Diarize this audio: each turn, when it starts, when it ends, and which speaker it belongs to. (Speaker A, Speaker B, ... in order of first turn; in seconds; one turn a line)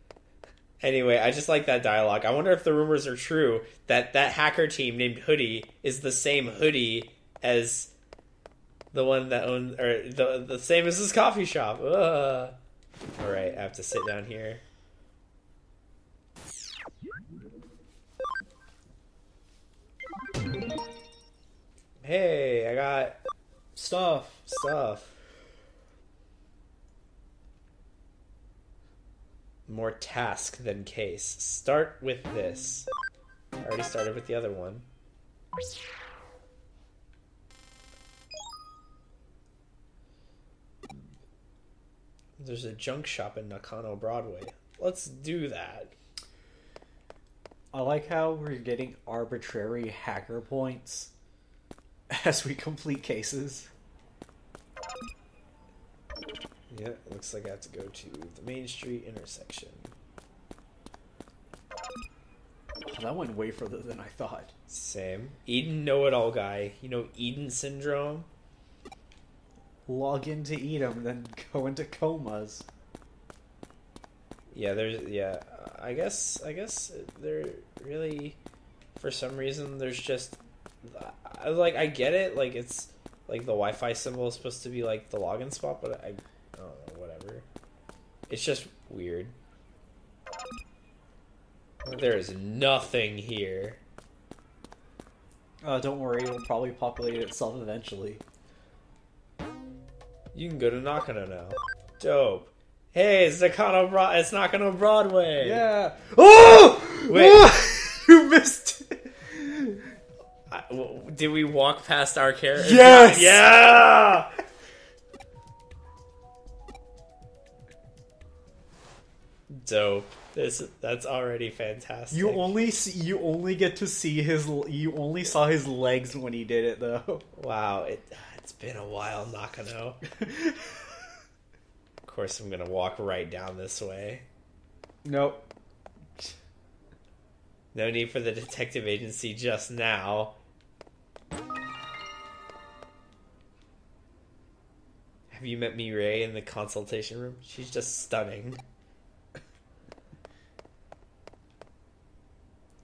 Speaker A: 0.8-7.9
Speaker A: 8.9-12.6
Speaker A: 13.2-14.6
Speaker A: 22.0-23.2
Speaker B: 23.8-24.4
Speaker A: 24.5-25.2
Speaker A: 29.7-32.9
Speaker A: 33.6-34.9
Speaker A: 42.4-45.9
Speaker B: 47.7-51.1
Speaker B: 52.1-53.7
Speaker A: 56.7-59.9
Speaker B: 62.9-64.5
Speaker A: 64.7-68.3
Speaker B: 69.9-72.7
Speaker A: 74.5-78.4
Speaker A: 79.0-87.5
Speaker A: 88.3-89.3
Speaker A: 91.8-93.8
Speaker B: 95.6-98.2
Speaker A: 100.3-105.6
Speaker B: 105.4-109.8
Speaker A: 107.1-107.5
Speaker A: 110.5-114.3
Speaker B: 112.6-113.5
Speaker A: 119.5-122.5
Speaker B: 122.1-127.2
Speaker A: 127.3-130.0
Speaker B: 130.2-130.9
Speaker A: 132.1-134.3
Speaker B: 135.0-135.5
Speaker A: 137.7-140.4
Speaker A: 145.3-148.6